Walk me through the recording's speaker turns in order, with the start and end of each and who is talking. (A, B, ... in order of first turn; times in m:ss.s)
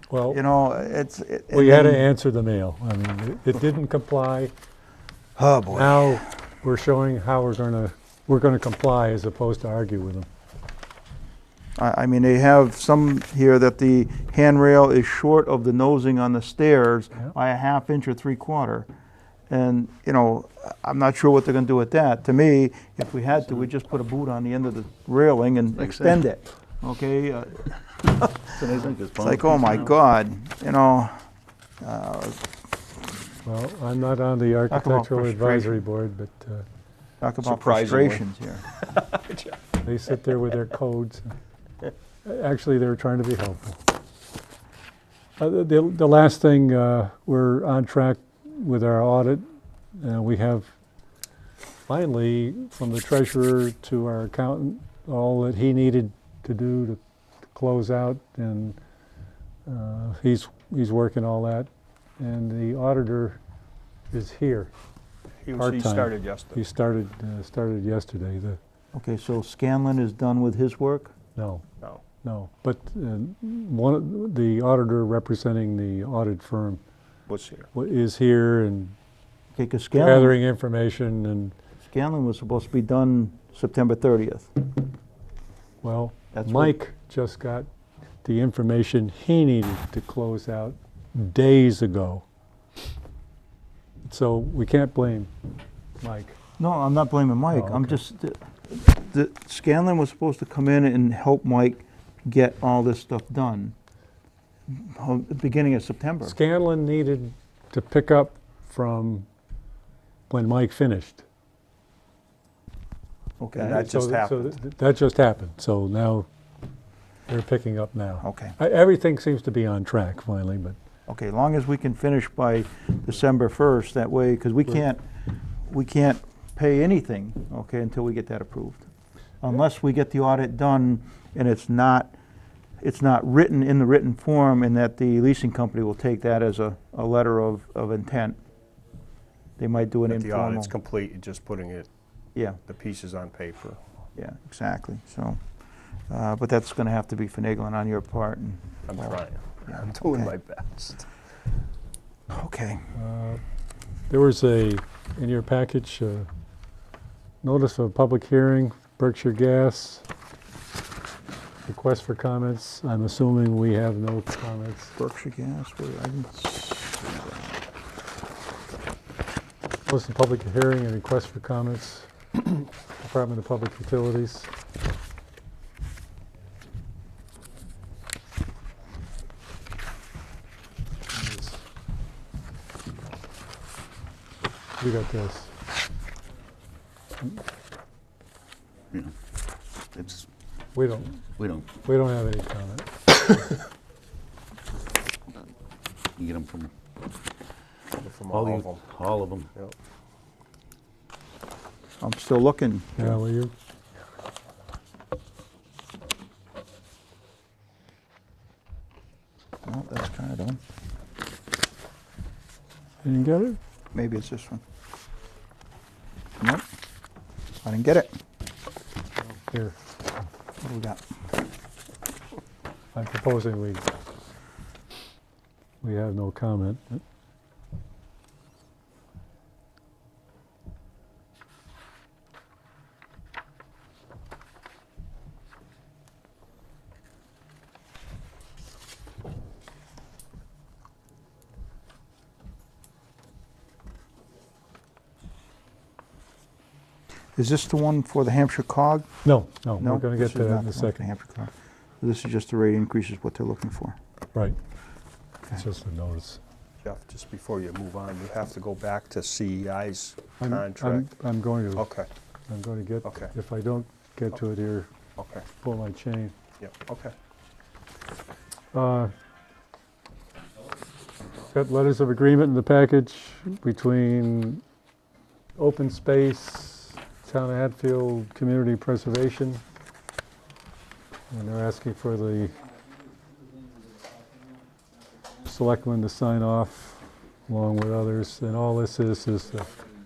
0:00.1-0:00.4 A
0:00.3-0:02.1 B
0:01.5-0:04.5 A
0:05.4-0:06.1 B
0:05.7-0:10.3 A
0:11.8-0:18.9 B
0:19.5-0:27.7 B
0:25.8-0:26.2 C
0:28.4-0:30.0 C
0:29.2-0:31.2 B
0:31.8-0:32.4 B
0:33.4-0:36.6 A
0:34.7-0:35.8 B
0:37.2-0:38.6 B
0:37.4-0:39.7 D
0:39.8-0:41.4 A
0:42.2-0:43.8 A
0:45.4-0:49.4 A
0:50.0-0:50.7 A
0:51.9-0:57.0 A
0:57.5-0:58.8 A
0:59.7-1:01.7 A
1:02.2-1:03.4 A
1:04.1-1:04.7 A
1:05.4-1:06.6 D
1:05.6-1:08.6 A
1:08.9-1:11.1 B
1:11.4-1:11.6 A
1:12.2-1:16.8 A
1:17.3-1:17.7 D
1:17.7-1:18.9 A
1:19.5-1:20.4 B
1:20.0-1:21.5 A
1:21.8-1:24.5 B
1:25.8-1:27.7 A
1:26.3-1:26.7 B
1:28.2-1:32.2 A
1:34.1-1:35.3 A
1:36.0-1:36.4 A
1:36.6-1:43.7 B
1:37.5-1:38.0 A
1:44.7-1:46.4 B
1:46.2-1:49.2 A
1:50.3-1:51.2 A
1:53.4-1:53.9 B
1:53.6-1:54.5 D
1:53.6-1:56.3 A
1:57.3-2:00.8 A
1:58.2-1:58.6 B
2:01.1-2:05.0 B
2:05.6-2:08.9 B
2:09.4-2:12.1 B
2:12.8-2:18.4 B
2:19.6-2:20.7 B
2:20.1-2:21.9 D
2:22.3-2:22.6 B
2:22.7-2:23.8 D
2:24.2-2:25.4 B
2:26.1-2:30.3 B
2:28.9-2:31.1 D
2:32.3-2:32.9 B
2:33.0-2:33.4 A
2:34.1-2:36.3 A
2:37.4-2:40.0 A
2:41.7-2:44.9 A
2:45.0-2:47.6 B
2:49.8-2:54.5 A
3:01.1-3:01.6 A
3:04.8-3:05.5 A
3:09.9-3:10.3 C
3:10.7-3:11.2 A
3:11.4-3:11.7 C
3:11.8-3:13.4 A
3:16.2-3:16.7 C
3:18.0-3:18.8 D
3:18.3-3:19.5 C
3:22.0-3:23.2 B
3:23.0-3:23.5 A
3:29.6-3:30.6 B
3:33.0-3:33.6 A
3:33.9-3:34.6 B
3:37.6-3:38.1 B
3:39.3-3:39.7 A
3:40.6-3:41.0 B
3:42.9-3:43.8 A
3:45.8-3:47.0 A
4:07.4-4:09.1 B
4:09.2-4:11.0 A
4:09.8-4:14.0 B
4:15.5-4:16.4 A
4:16.8-4:21.1 D
4:20.4-4:21.8 A
4:21.7-4:22.1 D
4:22.5-4:24.9 A
4:23.0-4:23.3 D
4:25.2-4:25.5 D
4:25.6-4:26.3 A
4:26.6-4:27.1 D
4:28.7-4:29.1 A
4:31.5-4:34.6 A
4:35.6-4:39.6 A
4:41.3-4:42.5 A
4:45.4-4:49.7 A